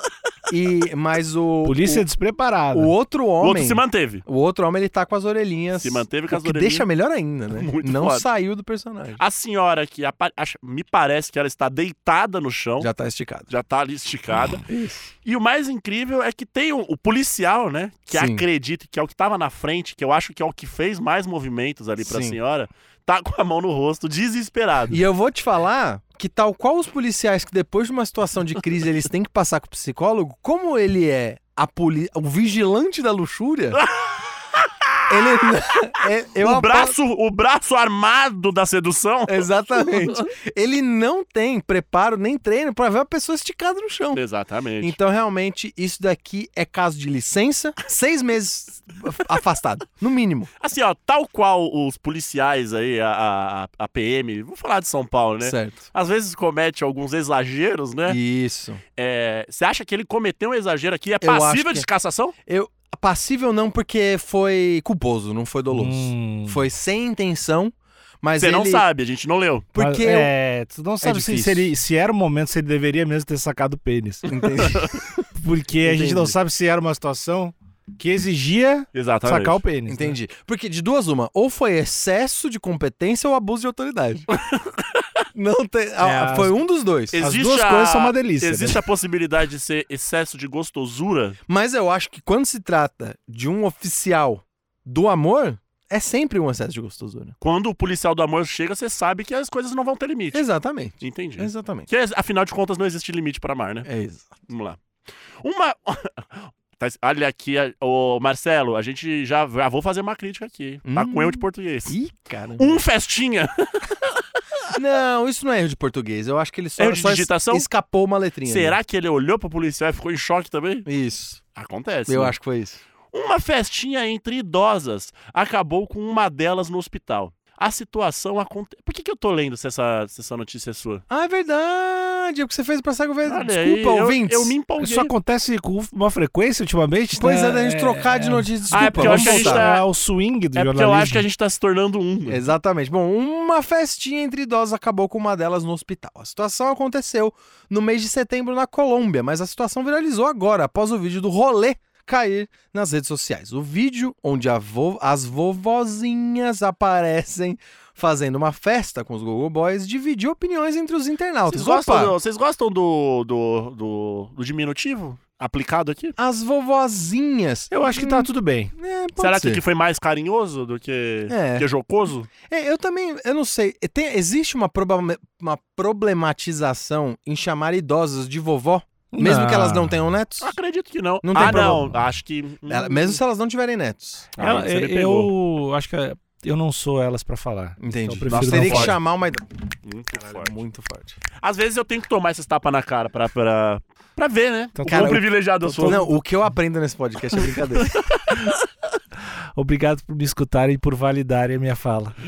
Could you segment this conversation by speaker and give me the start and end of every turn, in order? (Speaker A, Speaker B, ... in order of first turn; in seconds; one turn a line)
Speaker A: 0.5-2.0
Speaker B: 1.6-2.9
Speaker A: 2.7-9.2
Speaker C: 3.4-4.2
Speaker C: 5.8-6.8
Speaker C: 7.5-8.2
Speaker C: 9.2-12.9
Speaker A: 12.8-13.5
Speaker C: 13.5-14.6
Speaker A: 14.7-15.1
Speaker C: 15.2-25.0
Speaker A: 18.1-18.4
Speaker A: 22.0-22.4
Speaker A: 24.9-33.8
Speaker C: 33.8-35.5
Speaker A: 35.1-37.0
Speaker C: 36.4-40.3
Speaker A: 39.3-44.2
Speaker C: 44.1-45.0
Speaker A: 44.8-50.5
Speaker C: 50.6-58.2
Speaker A: 55.4-55.9
Speaker A: 58.1-58.8
Speaker C: 59.0-62.3
Speaker A: 61.2-61.9
Speaker A: 62.5-68.8
Speaker B: 65.7-66.6
Speaker C: 68.4-69.7
Speaker A: 69.7-70.3
Speaker B: 69.8-74.3
Speaker A: 71.0-71.7
Speaker A: 74.3-75.2
Speaker C: 74.6-74.9
Speaker B: 75.3-80.2
Speaker A: 75.8-76.3
Speaker C: 78.9-79.6
Speaker A: 79.9-84.2
Speaker C: 84.4-85.1
Speaker A: 85.3-87.2
Speaker B: 86.0-86.6
Speaker C: 87.1-91.4
Speaker B: 87.2-88.8
Speaker A: 91.5-97.3
Speaker C: 97.4-100.4
Speaker A: 100.3-101.9
Speaker C: 101.0-103.9
Speaker A: 103.8-104.3
Speaker C: 104.5-104.8
Speaker C: 105.4-112.0
Speaker A: 110.9-112.8
Speaker C: 112.6-114.2
Speaker A: 114.7-118.8
Speaker C: 116.8-117.7
Speaker C: 118.5-120.8
Speaker A: 120.8-121.4
Speaker C: 121.5-122.3
Speaker A: 122.1-122.8
Speaker C: 123.1-131.0
Speaker A: 131.1-134.5
Speaker C: 133.2-135.1
Speaker B: 134.8-141.2
Speaker A: 137.2-139.7
Speaker C: 138.7-139.8
Speaker C: 140.6-142.4
Speaker A: 142.3-162.2
Speaker C: 161.5-166.2
Speaker A: 166.2-169.6
Speaker B: 167.7-168.7
Speaker C: 169.2-172.3
Speaker A: 171.3-171.7
Speaker A: 172.5-180.5
Speaker B: 179.1-180.0
Speaker C: 180.4-183.2
Speaker A: 181.2-181.9
Speaker B: 181.4-181.8
Speaker A: 182.7-184.6
Speaker C: 184.4-185.3
Speaker B: 184.4-188.9
Speaker A: 187.8-189.4
Speaker C: 188.2-189.0
Speaker C: 189.8-190.6
Speaker A: 190.1-191.2
Speaker C: 191.4-196.1
Speaker B: 194.8-196.2
Speaker A: 194.9-195.2
Speaker A: 195.8-198.0
Speaker C: 197.4-198.6
Speaker B: 199.5-202.2